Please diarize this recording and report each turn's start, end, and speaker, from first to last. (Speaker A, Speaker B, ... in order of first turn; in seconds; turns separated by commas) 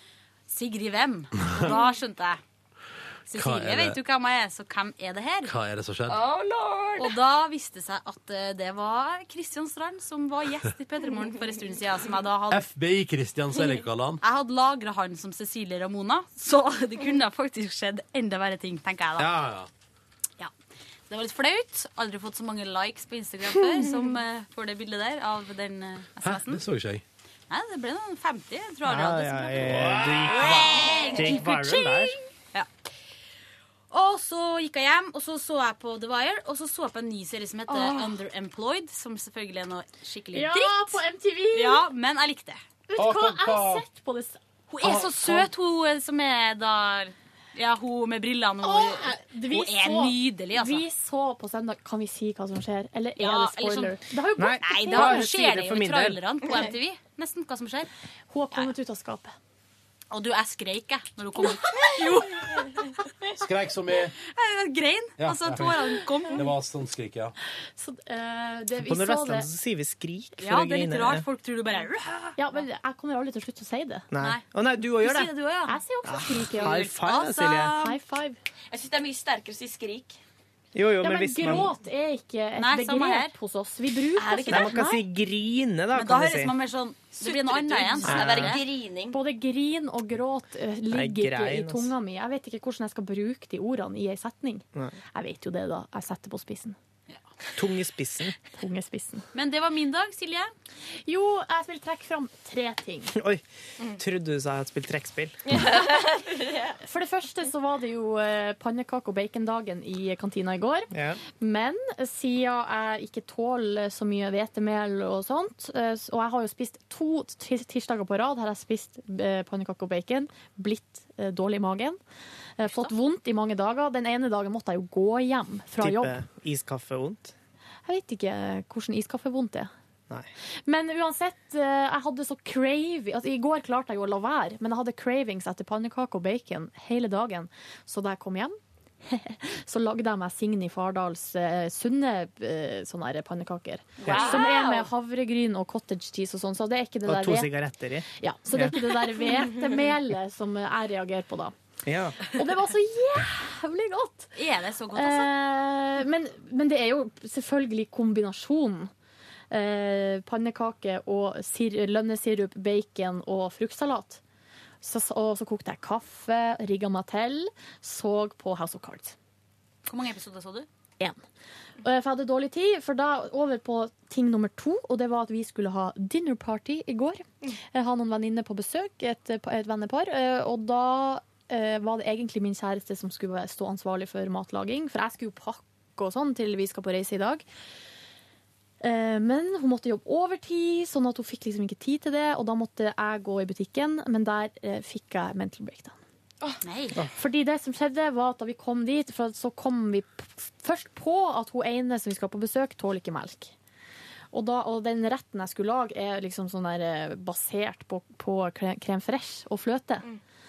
Speaker A: 0.5-2.4, Speaker A: 3.3-5.5, Speaker B: 3.3-4.0, Speaker B: 5.4-6.2, Speaker C: 6.1-7.2, Speaker A: 7.0-12.7, Speaker B: 12.5-14.2, Speaker A: 14.2-19.4, Speaker B: 19.2-19.7, Speaker A: 21.1-26.6, Speaker B: 26.2-27.0, Speaker A: 27.5-32.7, Speaker D: 28.8-32.1, Speaker B: 29.6-30.5, Speaker A: 33.9-41.0, Speaker E: 40.3-41.8, Speaker A: 41.5-42.6, Speaker E: 42.9-44.4, Speaker B: 43.0-43.8, Speaker A: 44.7-50.9, Speaker E: 48.6-55.2, Speaker A: 53.1-57.9, Speaker D: 54.4-56.2, Speaker E: 58.3-59.3, Speaker A: 60.1-62.9, Speaker B: 63.4-64.1, Speaker A: 64.2-66.5, Speaker B: 65.2-65.7, Speaker B: 66.3-67.3, Speaker E: 67.8-69.5, Speaker D: 68.8-71.2, Speaker A: 70.4-72.6, Speaker E: 72.4-74.1, Speaker D: 74.1-75.3, Speaker A: 74.2-75.8, Speaker E: 75.7-76.7, Speaker D: 76.1-77.8, Speaker A: 76.6-78.0, Speaker E: 77.8-78.4, Speaker C: 78.7-80.2, Speaker D: 80.7-81.7, Speaker E: 81.0-85.0, Speaker A: 82.5-83.3, Speaker C: 84.2-84.7, Speaker D: 84.5-86.5, Speaker A: 85.9-88.6, Speaker C: 87.2-89.2, Speaker D: 88.0-88.5, Speaker E: 89.1-96.8, Speaker D: 90.9-91.9, Speaker D: 97.5-98.3, Speaker E: 98.6-99.2, Speaker A: 99.3-100.5, Speaker E: 101.1-103.1, Speaker D: 103.2-103.4, Speaker D: 103.9-105.4, Speaker C: 105.5-106.8, Speaker E: 106.8-122.0, Speaker D: 110.9-111.2, Speaker E: 122.6-126.2, Speaker D: 125.8-127.3, Speaker E: 127.8-129.7, Speaker E: 130.7-147.5, Speaker C: 144.0-144.9, Speaker D: 144.0-144.4, Speaker D: 147.1-148.8, Speaker E: 148.2-151.6, Speaker D: 151.8-152.2, Speaker E: 152.3-154.3, Speaker A: 154.3-155.3, Speaker E: 154.9-158.9, Speaker E: 159.5-164.2, Speaker E: 164.8-169.1, Speaker A: 169.8-170.7, Speaker E: 171.8-187.4, Speaker E: 188.8-196.0, Speaker A: 196.6-197.0, Speaker E: 197.2-203.5, Speaker E: 204.3-210.1